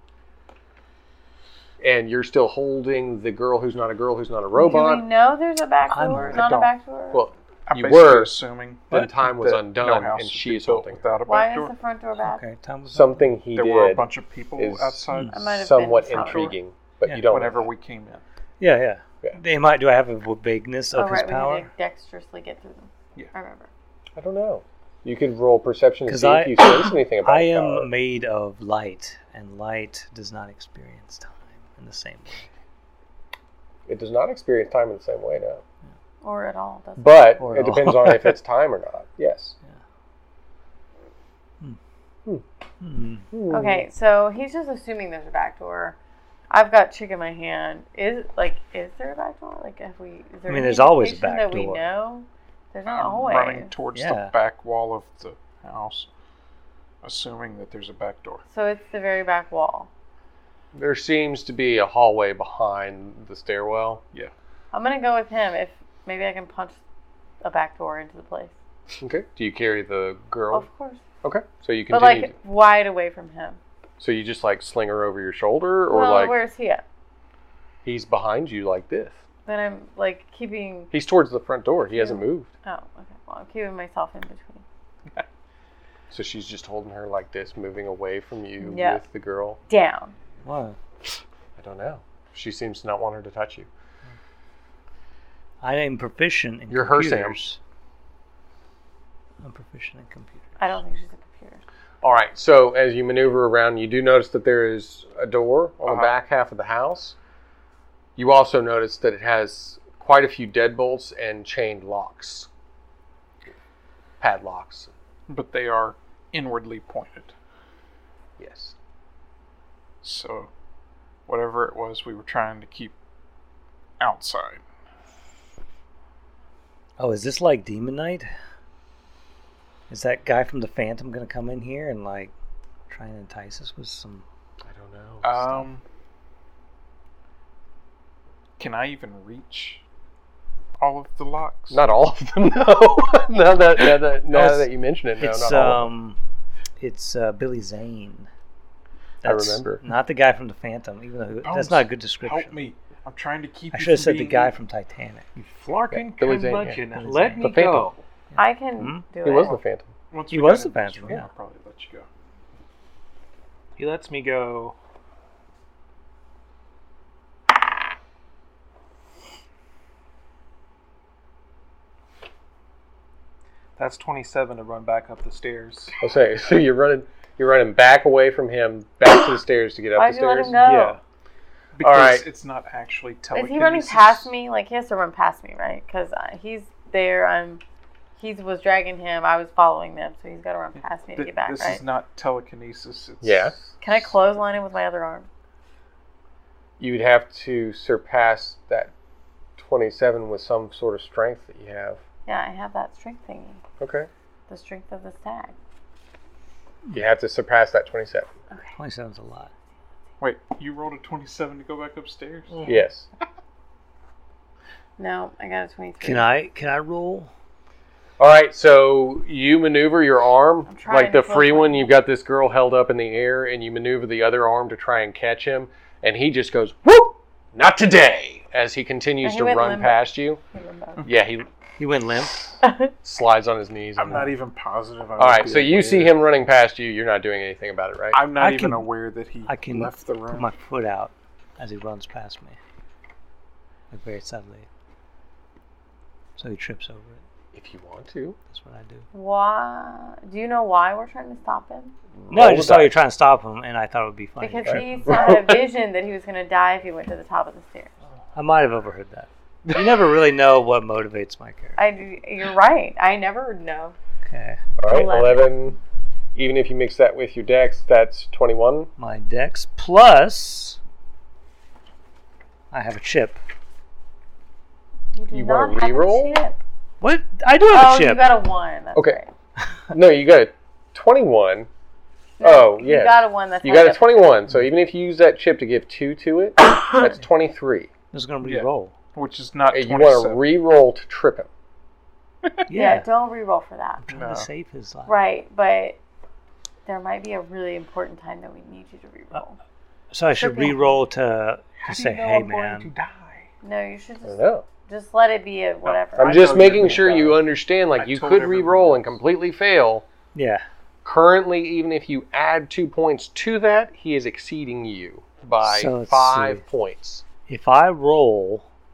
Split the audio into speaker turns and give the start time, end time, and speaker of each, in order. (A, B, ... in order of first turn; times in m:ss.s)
0:01.8-0:05.0 A
0:04.5-0:07.3 B
0:05.9-0:06.4 C
0:06.2-0:06.7 D
0:07.1-0:08.3 A
0:07.7-0:11.7 D
0:08.9-0:11.1 A
0:11.3-0:12.4 B
0:12.2-0:13.3 C
0:12.9-0:17.7 A
0:13.5-0:15.4 D
0:15.3-0:16.6 B
0:17.2-0:18.2 D
0:18.6-0:21.7 C
0:20.9-0:23.7 B
0:24.2-0:27.9 A
0:26.1-0:32.5 C
0:33.9-0:35.6 A
0:36.2-0:37.3 B
0:37.0-0:39.5 A
0:37.4-0:38.3 C
0:42.8-0:43.3 C
0:43.3-0:43.8 A
0:43.5-0:46.0 B
0:46.5-0:53.7 B
0:50.5-0:51.8 C
0:52.9-0:56.1 D
0:53.9-0:54.3 C
0:57.0-0:58.4 D
0:58.5-0:59.9 B
1:00.7-1:04.0 A
1:04.7-1:06.8 B
1:07.4-1:08.5 B
1:09.0-1:10.7 A
1:10.5-1:11.0 B
1:11.2-1:12.3 A
1:11.9-1:13.6 B
1:14.0-1:16.3 A
1:15.9-1:16.8 B
1:17.8-1:19.2 A
1:19.4-1:20.9 B
1:20.9-1:22.5 A
1:21.9-1:24.6 B
1:26.1-1:29.6 A
1:28.6-1:29.0 B
1:29.7-1:30.1 B
1:30.4-1:30.8 C
1:31.6-1:33.7 A
1:35.6-1:37.6 C
1:36.7-1:37.4 A
1:39.4-1:40.5 C
1:40.6-1:41.6 B
1:42.0-1:47.2 A
1:45.8-1:46.1 D
1:48.2-1:52.5 A
1:54.2-1:54.9 A
1:55.3-1:57.4 D
1:58.4-1:58.8 A
2:00.0-2:00.5 D
2:01.2-2:03.0 D
2:04.0-2:04.6 D
2:07.0-2:08.3 C
2:09.9-2:12.3 C
2:12.9-2:14.2 C
2:14.6-2:15.4 A
2:15.2-2:15.8 D
2:18.6-2:19.8 D
2:20.8-2:21.8 D
2:21.7-2:25.9 A
2:24.3-2:24.6 C
2:25.2-2:26.2 C
2:26.8-2:28.3 C
2:29.2-2:29.8 A
2:29.2-2:32.6 C
2:31.4-2:34.5 D
2:33.7-2:35.3 C
2:35.3-2:38.0 E
2:35.9-2:36.8 A
2:36.9-2:37.6 C
2:37.4-2:37.9 A
2:38.3-2:39.0 C
2:38.4-2:39.6 B
2:39.2-2:39.9 A
2:40.1-2:42.1 D
2:40.3-2:41.3 C
2:43.8-2:44.8 E
2:53.8-2:56.0 E
2:56.0-3:00.6 A
2:59.9-3:01.0 B
3:00.6-3:01.0 E
3:01.7-3:04.3 D
3:01.8-3:02.2 A
3:03.3-3:07.6 B
3:08.2-3:11.8 B
3:11.2-3:13.7 D
3:13.2-3:13.6 A
3:13.8-3:15.3 B
3:16.8-3:18.9 A
3:19.6-3:22.0 A
3:22.2-3:23.6 B
3:23.8-3:24.1 A
3:24.5-3:25.5 B
3:26.9-3:28.3 A
3:28.8-3:29.5 C
3:30.2-3:32.6 D
3:32.6-3:33.0 A
3:35.0-3:36.2 B
3:36.0-3:37.3 C
3:38.2-3:50.4 A
3:40.7-3:41.9 B
3:49.2-3:51.0 B
3:51.0-3:51.5 A
3:51.8-3:52.6 C
3:52.6-3:52.9 B
3:53.0-3:54.3 A
3:54.0-3:56.1 D
3:55.2-3:58.2 A
3:58.1-4:00.5 D
3:58.4-3:58.9 C
3:59.4-4:02.6 C
4:03.9-4:04.7 C
4:06.4-4:07.2 C
4:07.5-4:08.4 A
4:08.5-4:09.1 C
4:09.1-4:11.9 B
4:12.1-4:12.9 A
4:12.3-4:14.9 C
4:14.4-4:17.9 B
4:14.6-4:15.6 A
4:18.3-4:21.8 C
4:21.8-4:23.9 B
4:24.2-4:24.6 C
4:24.8-4:25.8 A
4:24.9-4:25.6 B
4:26.3-4:28.9 A
4:29.0-4:30.8 C
4:32.7-4:33.4 C
4:35.1-4:36.6 B
4:35.3-4:36.4 A
4:37.0-4:38.3 C
4:37.7-4:39.3 B
4:38.9-4:39.2 A
4:39.9-4:41.7 A
4:42.4-4:44.3 B
4:42.4-4:47.9 A
4:48.1-4:48.9 C
4:48.4-4:50.4 D
4:49.7-4:51.5 A
4:52.7-4:53.0 C
4:52.7-4:54.0 B
4:54.1-4:55.2 C
4:54.1-4:54.5 D
4:55.0-4:56.0 B
4:56.8-4:59.6 B
5:00.1-5:02.9 C
5:00.4-5:01.0 B
5:01.8-5:03.4 E
5:03.0-5:03.4 D
5:03.6-5:06.5 B
5:04.2-5:04.6 A
5:05.8-5:09.2 D
5:06.2-5:10.0 A
5:10.3-5:10.6 C
5:11.0-5:17.2 A
5:15.6-5:16.6 C
5:17.4-5:18.7 C